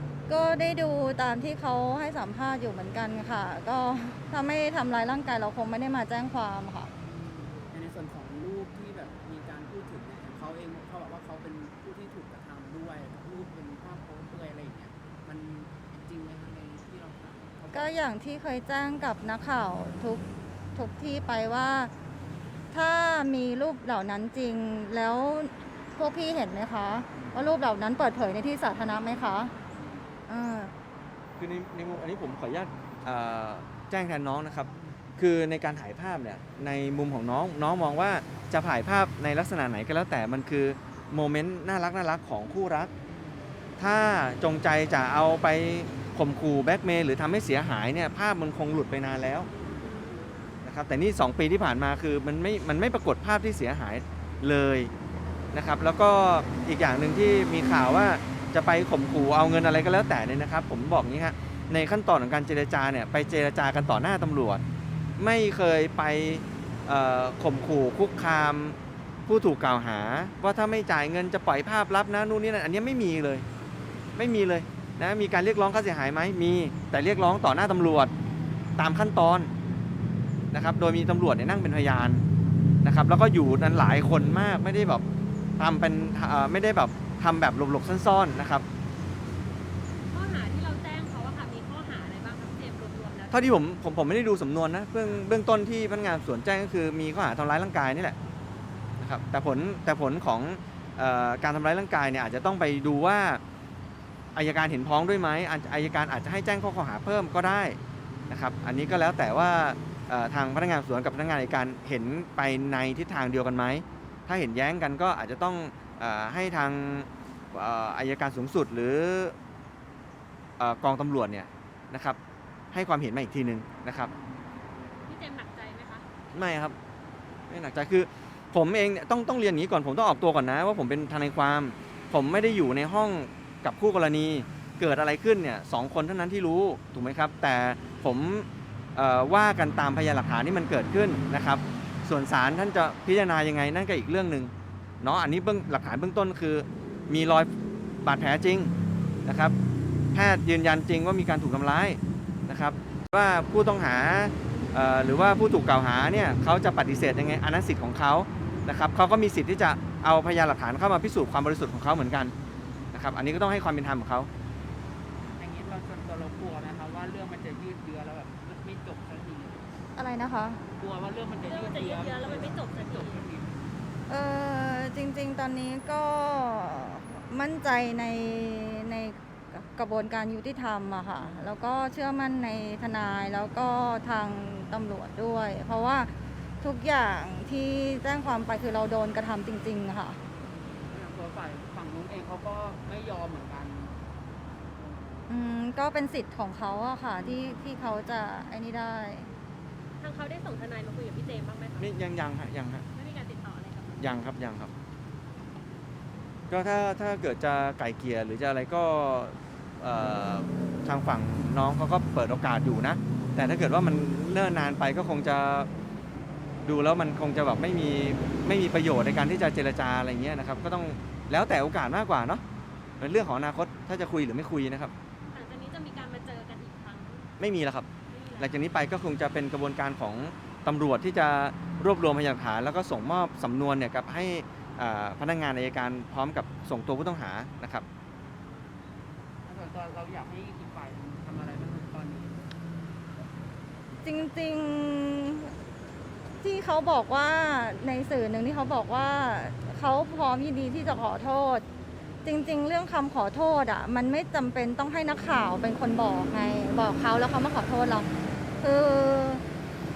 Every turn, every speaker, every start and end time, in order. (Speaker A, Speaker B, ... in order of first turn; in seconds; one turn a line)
Speaker A: 0.3-6.9
Speaker B: 7.0-18.0
Speaker A: 17.7-20.2
Speaker A: 20.7-21.9
Speaker A: 22.7-29.5
Speaker B: 27.1-27.4
Speaker B: 29.7-30.2
Speaker A: 30.3-30.7
Speaker C: 31.4-42.9
Speaker B: 43.0-43.5
Speaker C: 43.8-49.5
Speaker C: 50.6-54.9
Speaker C: 55.5-64.6
Speaker C: 65.2-68.8
Speaker C: 69.3-73.5
Speaker C: 74.1-78.1
Speaker C: 78.8-79.5
Speaker C: 80.5-82.2
Speaker C: 82.8-85.0
Speaker C: 85.6-88.6
Speaker D: 90.1-93.6
Speaker C: 93.3-98.2
Speaker C: 99.0-103.4
Speaker C: 104.3-107.8
Speaker C: 108.3-119.3
Speaker C: 120.6-122.2
Speaker C: 122.7-124.1
Speaker B: 124.0-124.5
Speaker D: 125.0-126.0
Speaker C: 126.3-126.8
Speaker C: 127.5-147.5
Speaker C: 148.0-148.7
Speaker C: 149.2-149.5
Speaker C: 150.1-162.3
Speaker C: 162.9-164.3
Speaker B: 165.4-169.7
Speaker A: 169.9-170.6
Speaker B: 170.7-173.6
Speaker D: 171.4-173.2
Speaker A: 174.1-190.2
Speaker B: 181.2-181.5
Speaker B: 190.8-194.0
Speaker A: 195.3-199.3
Speaker D: 200.0-201.9
Speaker C: 201.8-202.8
Speaker D: 202.9-204.0
Speaker C: 204.0-204.7
Speaker C: 206.5-215.7
Speaker C: 216.6-222.4
Speaker C: 223.0-224.9
Speaker D: 225.3-227.3
Speaker C: 227.4-227.9
Speaker D: 228.1-228.8
Speaker C: 228.4-237.8
Speaker B: 239.4-242.5
Speaker A: 244.0-245.5
Speaker A: 246.4-251.6
Speaker A: 252.2-258.1
Speaker A: 258.6-259.4